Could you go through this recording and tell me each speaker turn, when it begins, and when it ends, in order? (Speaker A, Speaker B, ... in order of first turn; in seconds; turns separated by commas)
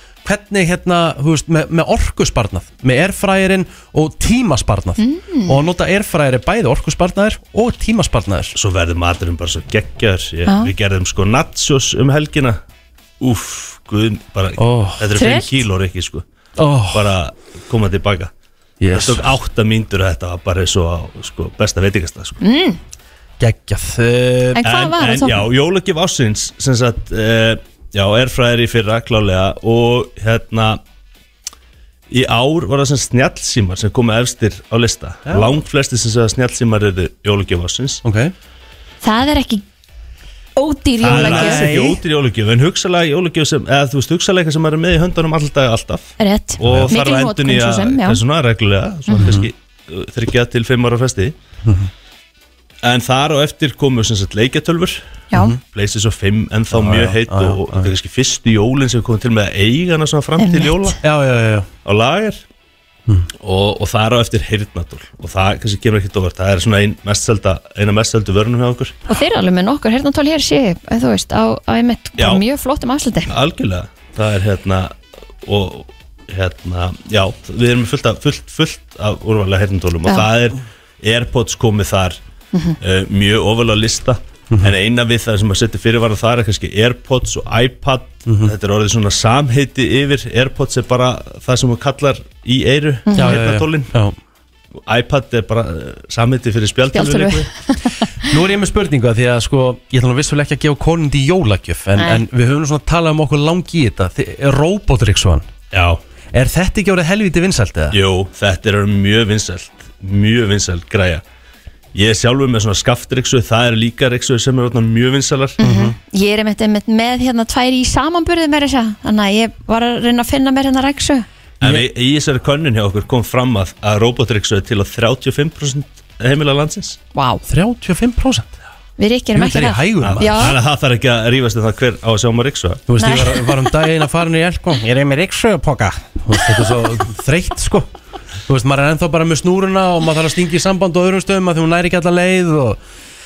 Speaker A: 0.2-8.5, Speaker B: 5.0-5.6, Speaker C: 8.5-12.6, Speaker B: 10.5-10.7, Speaker C: 13.2-16.2, Speaker A: 14.6-15.1, Speaker B: 15.1-15.7, Speaker A: 16.6-17.1, Speaker C: 16.9-18.3, Speaker A: 18.8-19.3, Speaker C: 18.9-22.4, Speaker B: 22.4-22.8, Speaker A: 23.4-24.6, Speaker B: 24.5-25.4, Speaker C: 24.6-30.8, Speaker C: 32.1-38.0, Speaker A: 35.2-35.6, Speaker A: 38.0-38.3, Speaker B: 39.0-39.6, Speaker B: 40.5-41.7, Speaker C: 41.0-51.3, Speaker A: 41.0-42.0, Speaker B: 46.2-48.2, Speaker A: 46.6-46.9, Speaker B: 49.1-49.4, Speaker A: 49.1-49.5, Speaker C: 52.8-55.0, Speaker C: 55.6-61.0, Speaker A: 56.7-57.9, Speaker B: 60.4-61.0, Speaker A: 61.0-61.7, Speaker C: 61.8-62.4, Speaker C: 63.4-69.0, Speaker B: 69.1-73.3, Speaker C: 72.2-72.4, Speaker C: 73.3-82.2, Speaker C: 82.8-93.9, Speaker A: 88.2-88.5, Speaker B: 93.1-93.4, Speaker A: 93.1-94.2, Speaker C: 94.8-97.5, Speaker B: 96.9-98.0, Speaker A: 98.2-105.5, Speaker B: 102.0-102.2, Speaker C: 105.7-106.0, Speaker A: 106.3-108.0, Speaker C: 107.9-111.2, Speaker C: 111.9-115.6, Speaker B: 115.6-121.3, Speaker A: 115.6-115.9, Speaker C: 121.6-127.0, Speaker B: 127.1-127.4, Speaker A: 127.5-128.5, Speaker B: 129.0-130.6, Speaker A: 129.3-130.5, Speaker C: 130.0-132.8, Speaker A: 132.9-137.9, Speaker B: 133.0-133.9, Speaker A: 138.5-142.8